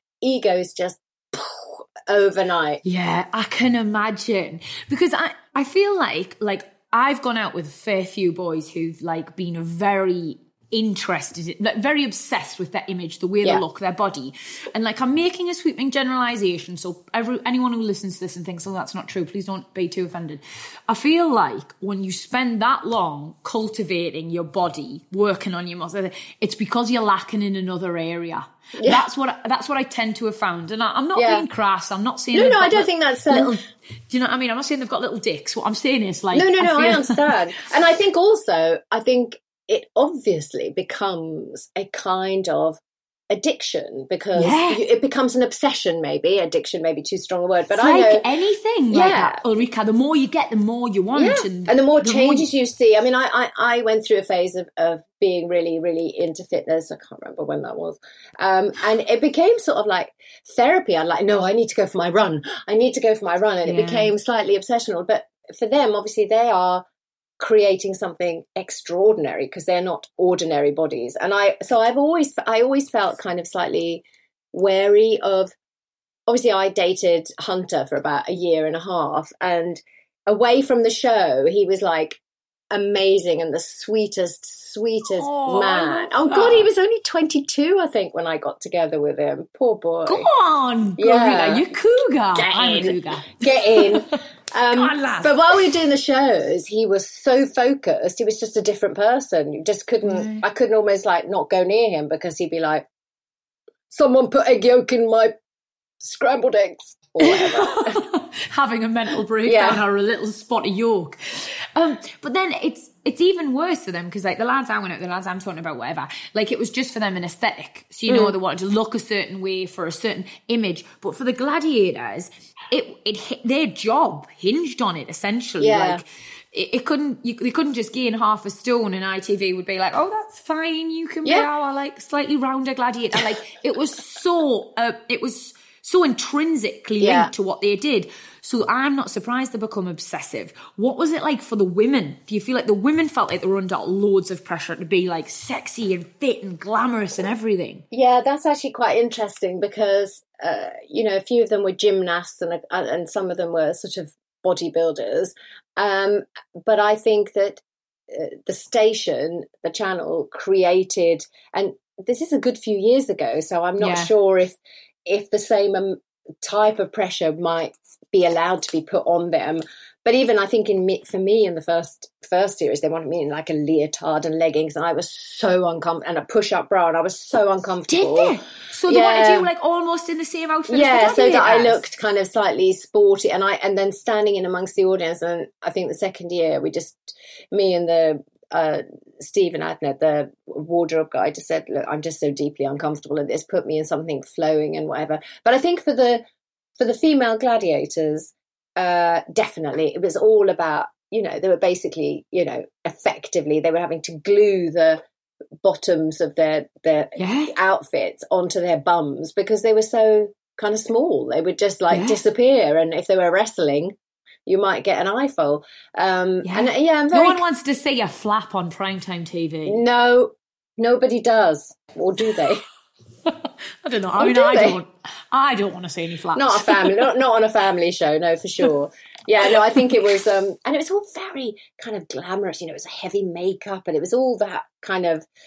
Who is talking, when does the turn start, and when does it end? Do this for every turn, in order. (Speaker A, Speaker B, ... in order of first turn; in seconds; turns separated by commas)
Speaker A: 0.2-2.8, Speaker B: 2.8-37.3, Speaker A: 28.8-29.1, Speaker A: 31.1-31.4, Speaker A: 32.3-33.5, Speaker A: 36.3-48.3, Speaker B: 44.3-44.8, Speaker B: 47.8-52.5, Speaker A: 48.9-49.4, Speaker A: 51.1-66.8, Speaker B: 63.6-64.1, Speaker A: 67.4-75.5, Speaker A: 76.3-82.2, Speaker A: 82.7-90.3, Speaker B: 85.1-86.7, Speaker B: 90.0-94.2, Speaker A: 91.0-91.7, Speaker A: 92.3-102.8, Speaker B: 94.7-95.3, Speaker B: 100.0-100.5, Speaker A: 103.9-105.3, Speaker A: 106.0-108.0, Speaker B: 107.2-147.8, Speaker A: 109.4-109.8, Speaker A: 118.1-118.3, Speaker A: 125.6-126.0, Speaker A: 137.0-137.3, Speaker A: 147.9-179.5, Speaker B: 163.8-164.1, Speaker B: 177.9-181.8, Speaker A: 180.7-196.2, Speaker A: 196.8-205.0, Speaker A: 205.6-213.9, Speaker B: 207.2-207.5, Speaker B: 211.9-212.2, Speaker A: 214.4-217.4, Speaker B: 216.4-219.8, Speaker A: 219.7-222.6, Speaker B: 223.2-227.0, Speaker A: 224.2-224.8, Speaker A: 226.3-235.2